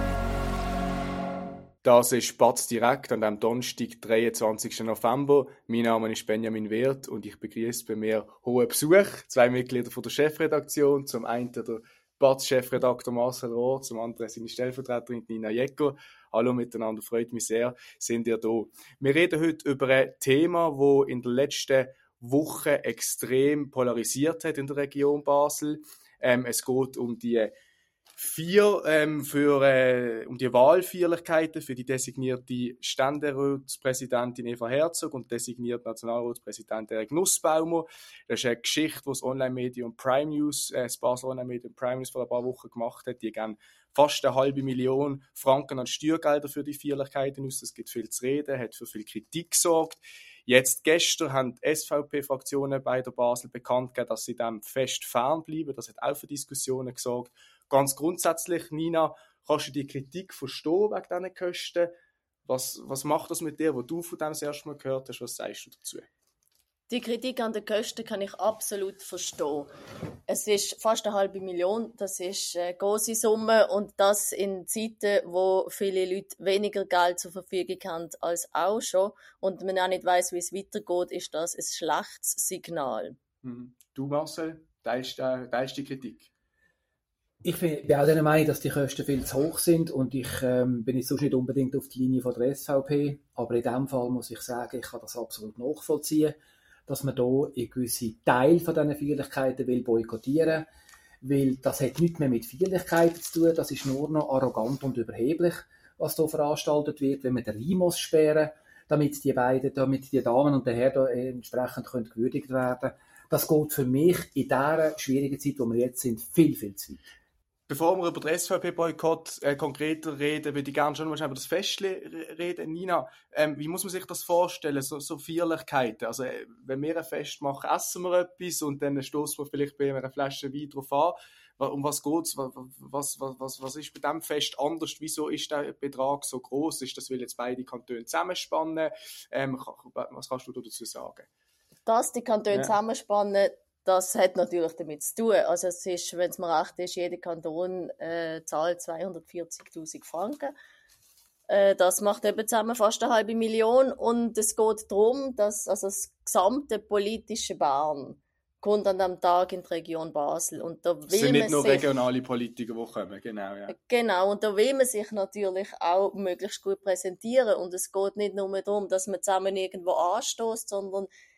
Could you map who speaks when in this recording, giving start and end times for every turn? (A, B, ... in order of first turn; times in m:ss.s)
0:01.8-0:27.5 A
0:28.2-1:01.9 A
1:02.5-1:06.1 A
1:06.9-1:09.7 B
1:10.3-1:23.2 B
1:23.4-1:26.3 A
1:27.4-1:36.4 C
1:36.9-1:40.7 C
1:41.2-1:57.0 C
1:57.7-2:21.3 A
2:21.9-2:30.5 B
2:31.5-2:41.9 B
2:41.1-2:43.8 A
2:43.7-2:51.1 B